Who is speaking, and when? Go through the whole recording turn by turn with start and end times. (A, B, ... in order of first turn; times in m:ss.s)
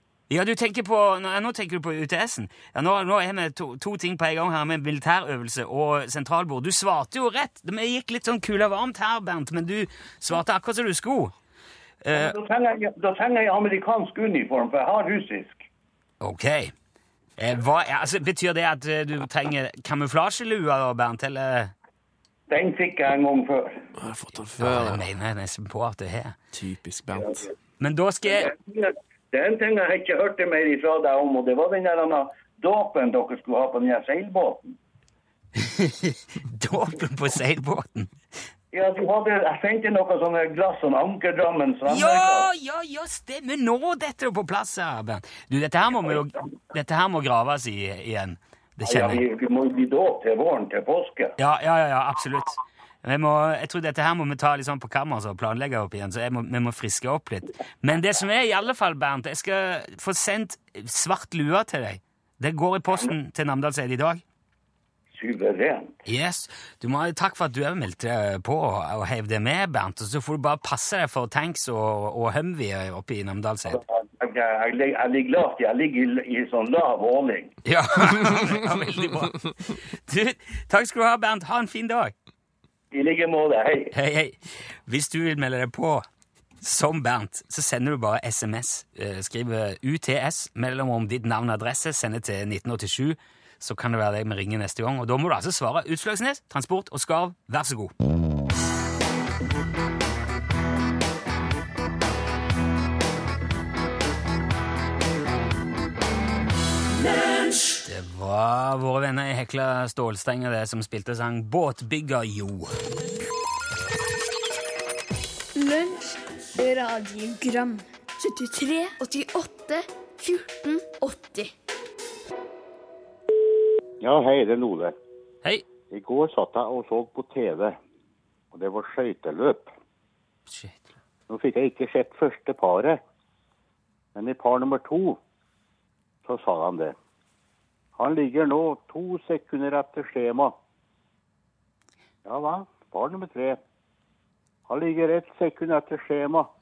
0:00.3-0:11.3 A
0:12.0-0:12.4 A
0:12.1-0:15.6 B
0:16.2-0:16.7 A
0:17.4-0:21.7 A
0:22.5-0:23.9 B
0:24.0-0:25.0 C
0:24.6-0:26.4 A
0:26.5-0:27.4 C
0:27.8-0:28.5 A
0:28.3-0:34.7 B
0:35.6-0:38.1 A
0:38.7-0:42.5 B
0:41.9-0:49.2 A
0:48.8-0:51.3 B
0:51.4-1:04.2 A
1:05.1-1:06.0 B
1:06.0-1:13.8 A
1:14.0-1:17.5 B
1:17.6-1:22.1 A
1:18.2-1:18.5 C
1:22.9-1:23.9 B
1:23.9-1:26.0 A
1:26.6-1:37.9 A
1:47.8-1:52.7 A
1:55.5-2:01.5 D
2:04.0-2:04.9 E
2:05.9-2:07.8 E
2:08.5-2:09.7 E
2:10.5-2:10.9 A
2:11.3-2:13.0 E
2:14.1-2:15.2 E
2:16.2-2:17.0 E
2:18.0-2:20.5 E
2:22.2-2:23.6 E
2:24.7-2:26.5 E